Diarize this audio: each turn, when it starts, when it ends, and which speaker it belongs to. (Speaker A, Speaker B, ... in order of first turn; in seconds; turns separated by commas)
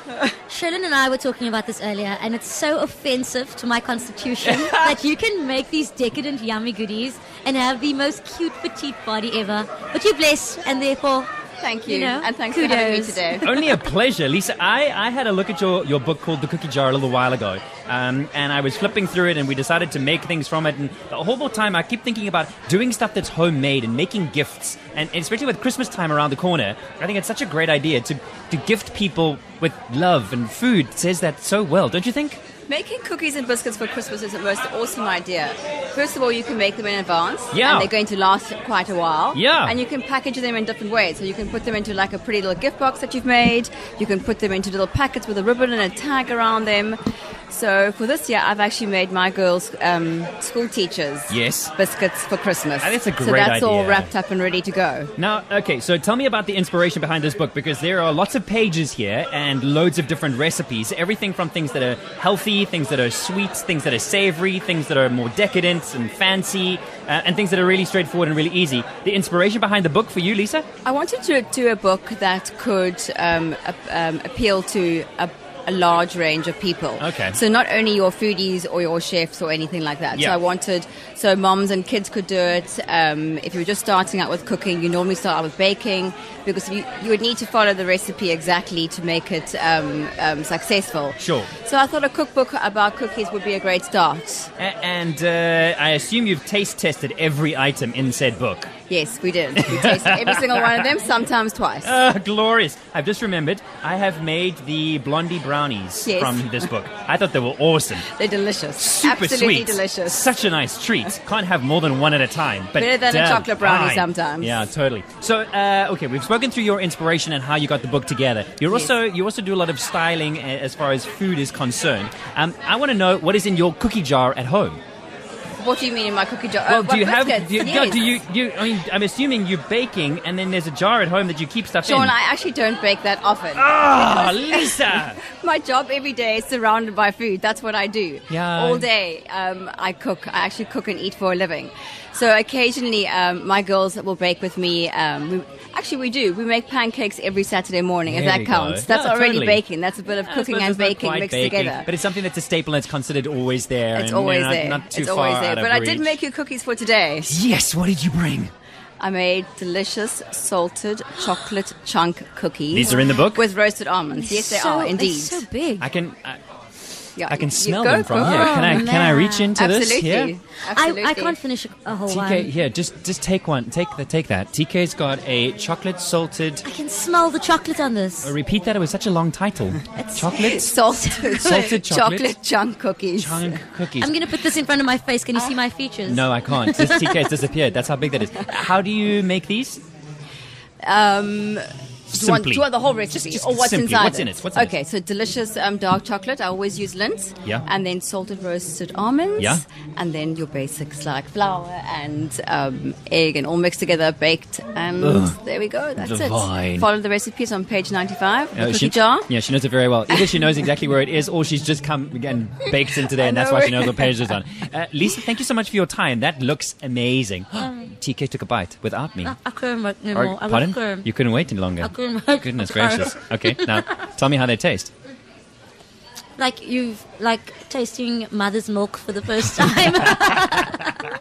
Speaker A: 0.5-11.3, Speaker B: 4.5-5.0, Speaker C: 11.6-13.5, Speaker A: 11.9-13.6, Speaker B: 13.4-32.4, Speaker C: 32.7-47.0, Speaker B: 37.5-37.9, Speaker B: 39.3-39.8, Speaker C: 47.5-55.1, Speaker B: 51.3-51.7, Speaker B: 52.8-54.1, Speaker B: 55.2-70.7, Speaker C: 70.8-94.5, Speaker B: 77.0-77.4, Speaker B: 80.1-80.4, Speaker B: 91.2-91.5, Speaker B: 94.6-98.7, Speaker C: 98.9-102.0, Speaker B: 99.6-100.8, Speaker B: 101.8-108.1, Speaker C: 106.1-106.7, Speaker C: 108.1-110.3, Speaker B: 108.8-124.8, Speaker C: 112.8-114.5, Speaker C: 125.6-128.1, Speaker B: 126.6-132.2, Speaker C: 131.8-133.7, Speaker B: 133.5-135.2, Speaker C: 134.5-151.9, Speaker B: 138.3-138.9, Speaker B: 148.1-156.2, Speaker C: 153.9-157.3, Speaker B: 157.3-158.5, Speaker C: 159.0-165.4, Speaker B: 162.7-163.4, Speaker A: 164.2-165.9, Speaker B: 165.8-166.4, Speaker C: 167.2-168.9, Speaker B: 167.2-170.3, Speaker A: 168.2-169.6, Speaker C: 169.6-171.4, Speaker A: 170.7-172.5, Speaker B: 172.1-176.7, Speaker A: 176.6-178.3, Speaker B: 178.2-182.3, Speaker C: 180.0-183.6, Speaker B: 183.2-184.2, Speaker A: 184.0-187.3, Speaker B: 186.1-189.8, Speaker C: 190.8-209.3, Speaker B: 192.1-194.7, Speaker B: 199.4-199.6, Speaker B: 205.0-205.4, Speaker B: 206.0-206.9, Speaker B: 208.6-219.3, Speaker C: 210.1-210.5, Speaker C: 213.2-214.2, Speaker A: 219.2-221.1, Speaker B: 220.1-224.9, Speaker A: 221.8-223.9, Speaker A: 226.4-231.1